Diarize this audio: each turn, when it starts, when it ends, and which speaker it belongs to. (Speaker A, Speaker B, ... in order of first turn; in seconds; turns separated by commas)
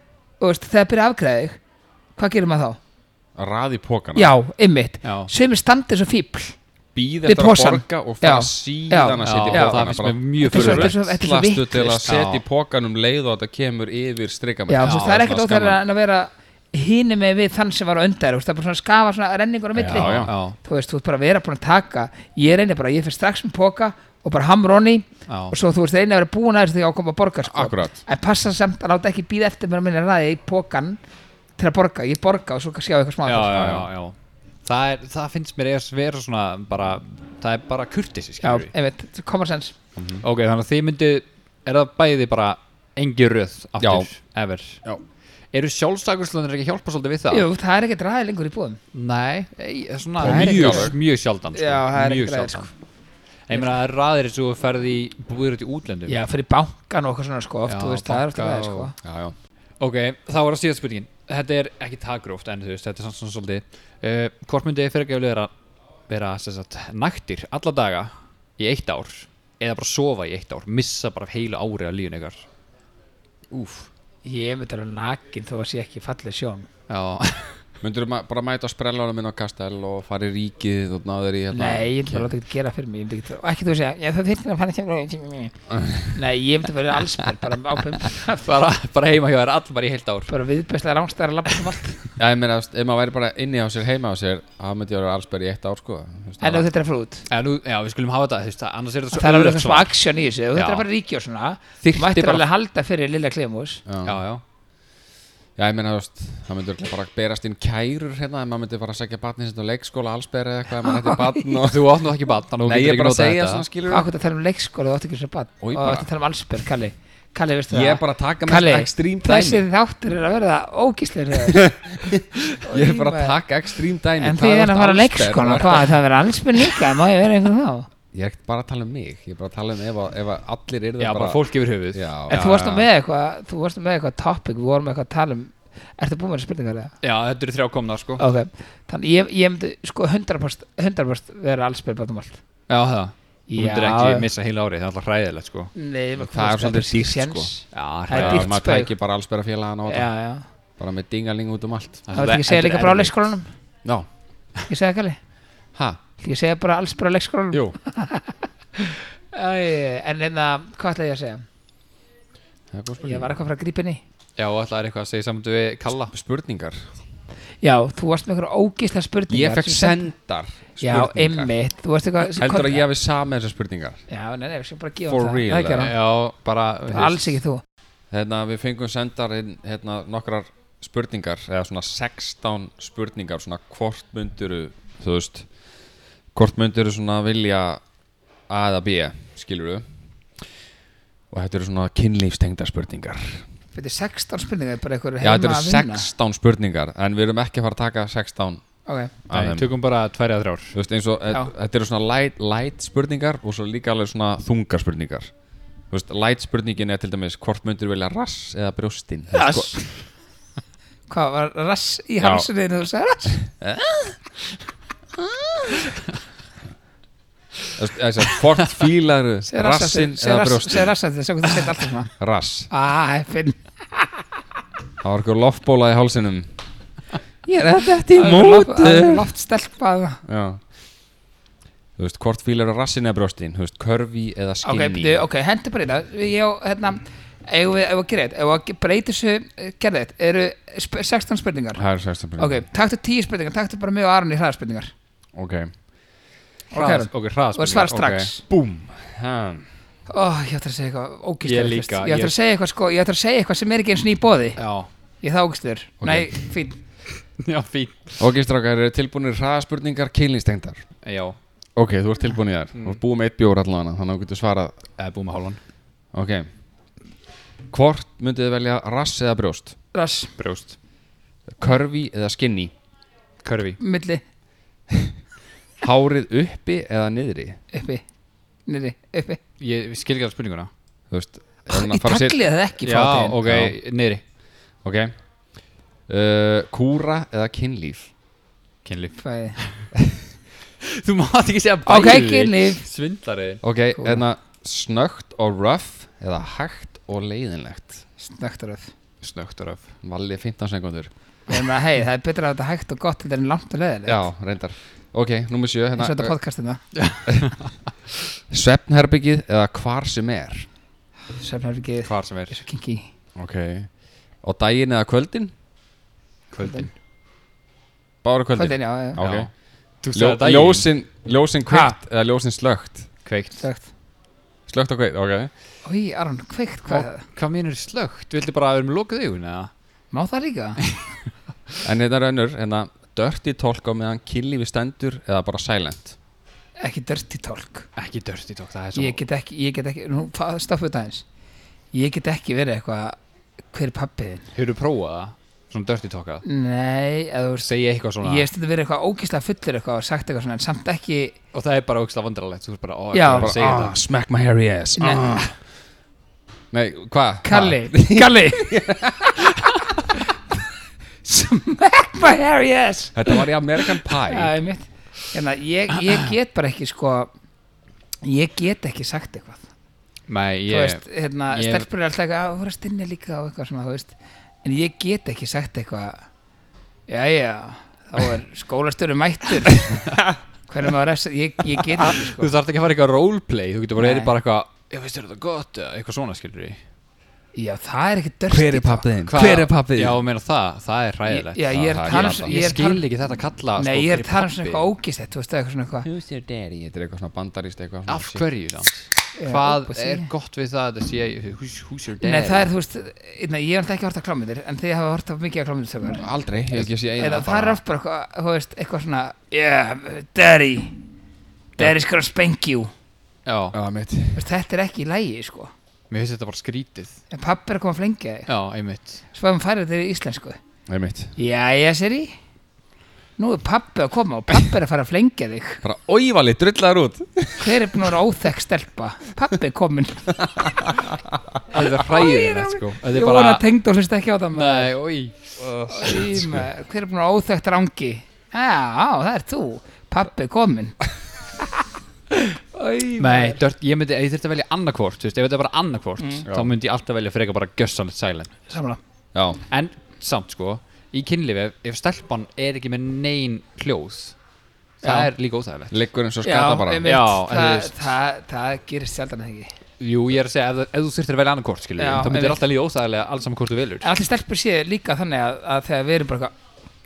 Speaker A: 0.4-1.6, Speaker A: 2.2-2.8, Speaker B: 3.4-4.3, Speaker A: 4.2-6.5, Speaker C: 5.0-5.3, Speaker B: 6.9-15.8, Speaker A: 7.2-9.8, Speaker C: 9.2-11.0, Speaker A: 10.4-12.1, Speaker C: 12.0-12.4, Speaker A: 14.7-31.0, Speaker C: 14.8-15.2, Speaker B: 19.7-20.3, Speaker C: 19.9-20.6, Speaker C: 25.3-25.5, Speaker B: 27.4-28.0, Speaker A: 31.6-33.8, Speaker C: 33.2-34.1, Speaker B: 33.5-33.9, Speaker C: 34.6-38.7, Speaker A: 38.4-39.7, Speaker B: 40.0-40.2, Speaker C: 40.2-44.8, Speaker B: 43.8-44.1, Speaker C: 45.5-47.5, Speaker A: 47.3-48.8, Speaker C: 48.9-52.7, Speaker A: 50.2-50.9, Speaker B: 50.2-51.0, Speaker A: 51.5-52.7, Speaker C: 53.5-56.2, Speaker A: 56.1-58.9, Speaker C: 57.7-58.9, Speaker B: 59.0-59.3, Speaker C: 59.8-65.5, Speaker C: 66.1-72.5, Speaker B: 73.5-73.9, Speaker A: 74.2-76.7, Speaker C: 76.9-77.6, Speaker B: 77.8-82.3, Speaker A: 81.5-85.5, Speaker B: 85.7-86.1, Speaker A: 86.1-88.5, Speaker C: 88.3-90.3, Speaker A: 90.3-92.0, Speaker B: 92.2-96.7, Speaker A: 96.4-97.2, Speaker C: 97.3-99.9, Speaker A: 99.1-103.8, Speaker C: 100.5-100.9, Speaker C: 101.8-102.4, Speaker B: 103.9-104.2, Speaker C: 104.0-104.4, Speaker B: 105.6-112.0, Speaker A: 110.8-111.4, Speaker C: 111.6-113.7, Speaker B: 112.6-114.1, Speaker A: 113.9-121.7, Speaker B: 115.6-116.1, Speaker B: 117.7-119.7, Speaker B: 121.4-125.9, Speaker A: 122.6-123.4, Speaker A: 124.2-127.9, Speaker B: 128.1-132.9, Speaker C: 131.0-132.6, Speaker A: 132.3-136.9, Speaker C: 137.0-138.2, Speaker A: 138.2-142.4, Speaker C: 142.7-145.7, Speaker A: 143.5-144.3, Speaker A: 145.7-148.9, Speaker B: 146.2-147.5, Speaker C: 147.7-148.5, Speaker B: 148.1-150.1, Speaker A: 149.9-150.4, Speaker B: 150.8-152.2, Speaker C: 152.1-153.2, Speaker A: 152.1-153.5, Speaker A: 154.7-155.2, Speaker B: 155.7-156.0, Speaker A: 156.2-161.4, Speaker B: 157.5-157.8, Speaker B: 162.7-163.3, Speaker A: 163.0-164.0, Speaker C: 164.4-166.1, Speaker B: 166.1-166.9, Speaker A: 167.6-170.1, Speaker B: 169.3-171.5, Speaker A: 170.8-172.8, Speaker B: 172.3-174.0, Speaker A: 174.1-175.9, Speaker B: 175.1-175.9, Speaker C: 175.8-177.4, Speaker A: 176.9-177.6, Speaker B: 178.1-185.5, Speaker B: 186.3-187.8, Speaker B: 188.5-189.8, Speaker B: 191.3-193.4, Speaker A: 193.7-196.1, Speaker B: 195.2-199.7, Speaker A: 198.9-199.1, Speaker C: 199.3-200.8, Speaker B: 200.7-205.3, Speaker B: 205.9-209.8, Speaker A: 209.3-209.9, Speaker A: 211.1-213.4, Speaker B: 212.2-212.5, Speaker B: 213.5-214.2, Speaker B: 215.2-215.8, Speaker B: 217.8-220.9, Speaker A: 219.5-222.1, Speaker B: 222.2-222.7, Speaker A: 222.7-224.2, Speaker B: 225.0-226.5, Speaker B: 227.4-229.2, Speaker A: 228.1-230.2, Speaker B: 230.2-230.6, Speaker B: 232.0-235.2, Speaker A: 234.6-241.8, Speaker B: 241.8-242.6, Speaker A: 242.4-244.9, Speaker B: 245.3-245.7, Speaker A: 246.7-248.4, Speaker C: 246.7-248.3, Speaker B: 248.5-249.7, Speaker A: 250.1-254.6, Speaker C: 251.4-252.3, Speaker C: 254.6-254.9, Speaker A: 255.2-256.8, Speaker B: 256.0-256.3, Speaker C: 257.4-258.3, Speaker B: 258.2-260.8, Speaker C: 261.0-261.4, Speaker B: 261.8-264.7, Speaker C: 262.7-263.0, Speaker C: 265.0-265.6, Speaker B: 266.1-266.5, Speaker B: 267.7-269.7, Speaker A: 269.9-270.3, Speaker C: 270.4-270.8, Speaker B: 271.5-272.7, Speaker C: 273.4-273.8, Speaker A: 273.8-274.2, Speaker B: 275.8-277.6, Speaker A: 277.7-278.0, Speaker A: 278.7-279.4, Speaker C: 279.6-280.7, Speaker B: 281.1-282.4, Speaker A: 281.7-283.4, Speaker C: 282.8-284.2, Speaker B: 283.4-283.8, Speaker B: 284.8-285.1, Speaker B: 286.1-288.1, Speaker C: 288.8-289.9, Speaker A: 289.2-289.6, Speaker C: 290.8-293.6, Speaker A: 291.9-292.8, Speaker B: 293.6-298.0, Speaker A: 293.9-294.2, Speaker A: 298.2-298.9, Speaker C: 299.2-299.9, Speaker B: 300.0-301.1, Speaker A: 301.5-304.2, Speaker B: 304.1-306.3, Speaker A: 305.9-306.8, Speaker C: 306.9-307.7, Speaker B: 307.3-307.5, Speaker B: 308.5-310.7, Speaker A: 311.4-313.1, Speaker C: 312.0-312.6, Speaker B: 313.4-313.9, Speaker B: 314.4-315.5, Speaker C: 316.5-316.9, Speaker A: 316.6-316.9, Speaker B: 318.2-319.5, Speaker A: 318.6-319.2, Speaker C: 319.2-319.5, Speaker C: 320.0-320.9, Speaker B: 320.1-323.1, Speaker A: 321.7-321.9, Speaker C: 323.2-323.6, Speaker A: 323.6-323.9, Speaker B: 324.7-325.5, Speaker A: 325.8-327.2, Speaker C: 326.9-329.7, Speaker A: 330.1-330.8, Speaker C: 330.8-331.2, Speaker B: 331.8-336.1, Speaker A: 336.8-337.9, Speaker C: 338.0-339.2, Speaker A: 338.9-341.2, Speaker A: 341.9-343.2, Speaker A: 343.7-344.5, Speaker C: 344.5-346.4, Speaker A: 346.4-347.7, Speaker C: 347.6-348.5, Speaker A: 348.2-351.3, Speaker C: 351.5-353.9, Speaker A: 353.1-353.6, Speaker B: 353.4-355.5, Speaker A: 355.0-355.4, Speaker B: 356.7-359.4, Speaker A: 357.4-360.1, Speaker A: 361.2-363.4, Speaker B: 363.1-364.5, Speaker A: 364.1-367.3, Speaker A: 368.2-369.7, Speaker C: 370.3-371.9, Speaker A: 370.7-376.2, Speaker A: 377.1-380.0, Speaker C: 379.9-380.2, Speaker A: 380.7-382.5, Speaker C: 381.7-386.8, Speaker A: 384.0-384.3, Speaker A: 387.5-389.1, Speaker B: 388.5-390.2, Speaker C: 389.3-394.9, Speaker A: 391.3-393.0, Speaker B: 391.7-392.5, Speaker A: 393.8-396.1, Speaker B: 396.0-398.4, Speaker C: 398.1-402.6, Speaker A: 399.4-400.3, Speaker A: 402.2-406.2, Speaker B: 406.2-407.8, Speaker A: 407.2-410.9, Speaker A: 411.8-412.9, Speaker C: 413.4-413.7, Speaker B: 413.7-414.4, Speaker A: 414.3-415.7, Speaker C: 416.1-417.2, Speaker A: 417.3-418.5, Speaker C: 418.5-419.2, Speaker A: 419.3-420.6, Speaker B: 420.9-421.3, Speaker A: 421.4-422.3, Speaker A: 423.4-425.8, Speaker B: 425.8-427.9, Speaker A: 427.6-430.5, Speaker B: 430.4-431.4, Speaker C: 431.7-433.6, Speaker A: 431.7-434.9, Speaker C: 434.5-435.3, Speaker B: 435.6-436.7, Speaker A: 435.9-440.9, Speaker A: 442.3-443.6, Speaker C: 443.2-448.5, Speaker A: 446.2-446.4, Speaker B: 446.5-446.7, Speaker A: 448.7-449.0, Speaker B: 449.3-449.6, Speaker C: 449.7-454.4, Speaker C: 455.0-456.0, Speaker A: 455.0-455.3, Speaker B: 455.9-457.1, Speaker A: 456.4-459.7, Speaker C: 457.0-458.1, Speaker C: 460.0-464.1, Speaker A: 462.0-462.6, Speaker A: 464.0-466.5